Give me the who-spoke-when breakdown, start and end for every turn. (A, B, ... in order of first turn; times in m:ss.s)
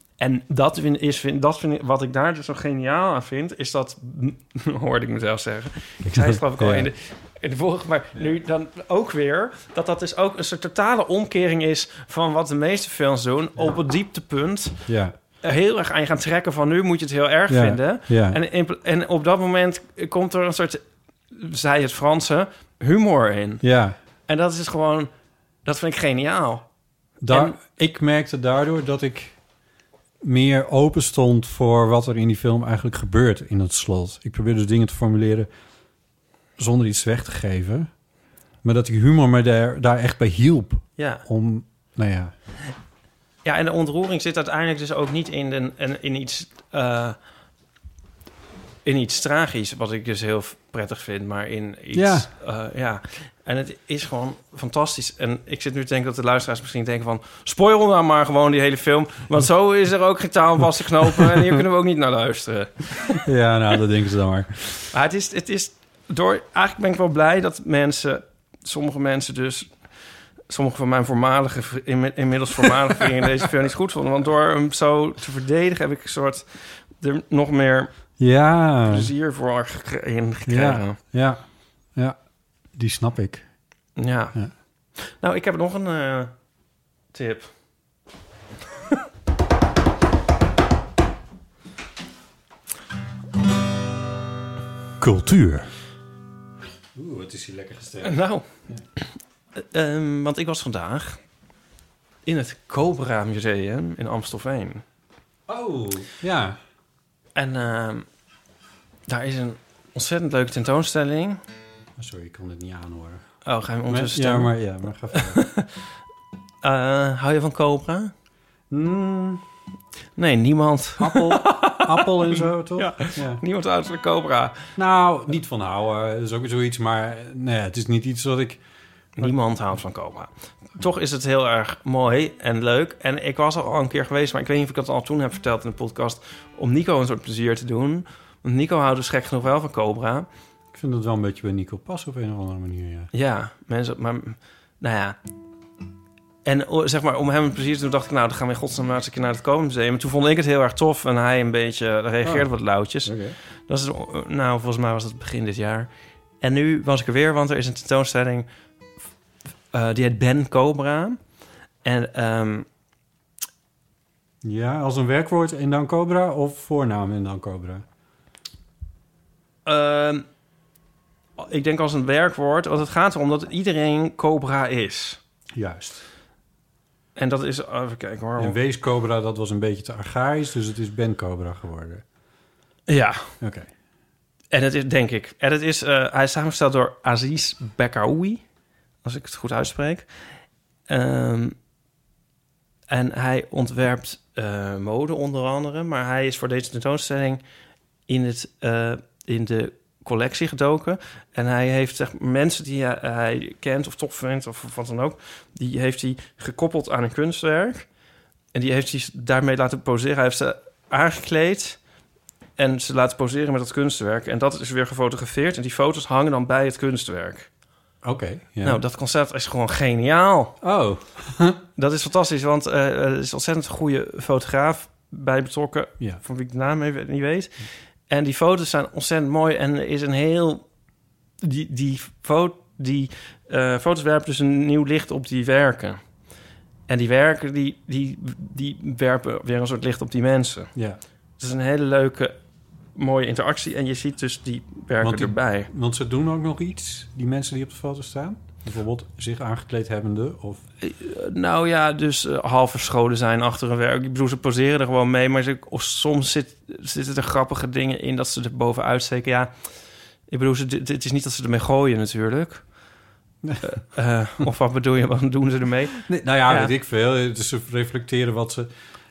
0:00.2-0:14.8 A
0:06.0-0:06.9 B
0:14.8-0:15.2 B
0:15.4-0:23.6 A
0:17.5-0:18.4 B
0:23.6-0:24.0 B
0:24.3-0:25.1 A
0:25.6-0:26.6 A
0:27.2-0:29.4 B
0:27.3-0:27.6 A
0:30.2-0:35.5 B
0:36.6-0:37.9 B
0:38.6-0:42.3 B
0:41.0-0:41.2 A
0:43.4-0:47.2 A
0:48.8-1:03.2 A
0:51.9-0:52.3 B
1:01.0-1:01.5 B
1:03.2-1:04.9 B
1:04.9-1:09.8 A
1:10.5-1:17.9 A
1:18.2-1:19.1 B
1:18.8-1:21.0 A
1:20.4-1:21.4 B
1:22.7-1:23.5 B
1:24.0-1:24.4 A
1:24.9-1:26.3 A
1:27.1-1:27.5 A
1:35.0-1:35.7 B
1:36.9-1:38.8 B
1:38.0-1:38.5 A
1:39.6-1:41.2 A
1:42.2-1:44.8 A
1:45.5-1:46.6 B
1:47.3-1:48.0 A
1:49.1-1:51.4 A
1:52.0-1:53.2 B
1:53.4-1:54.5 A
1:53.9-1:55.4 B
1:55.1-1:55.7 A
1:56.6-1:58.1 A
1:58.7-1:59.4 B
2:00.2-2:04.6 A
2:01.0-2:03.4 B
2:04.8-2:08.6 B
2:09.2-2:20.3 A
2:20.7-2:23.1 B
2:23.1-2:25.2 A
2:26.4-2:35.9 A
2:32.2-2:33.4 B
2:36.4-2:38.5 A
2:39.7-2:41.2 A
2:41.8-2:42.6 A
2:44.4-2:47.8 B
2:49.6-2:50.2 A
2:51.4-2:55.2 A
2:55.5-2:56.0 B
2:57.2-2:58.6 A
2:58.4-3:02.0 B
3:02.9-3:03.3 A
3:03.4-3:03.7 B
3:04.5-3:08.4 A
3:09.0-3:10.1 A
3:10.9-3:11.5 A
3:12.9-3:17.4 A
3:18.1-3:27.9 A
3:28.5-3:31.8 A
3:32.6-3:37.5 A
3:38.0-3:38.8 B
3:38.6-3:40.6 A
3:40.6-3:41.6 B
3:41.8-3:50.6 A
3:51.4-3:56.0 A
3:56.9-4:00.7 A
4:00.7-4:01.0 B
4:01.4-4:02.4 A
4:02.9-4:05.7 A
4:05.0-4:10.6 B
4:10.8-4:19.5 A
4:20.3-4:22.6 A
4:23.6-4:26.7 A
4:26.0-4:28.7 B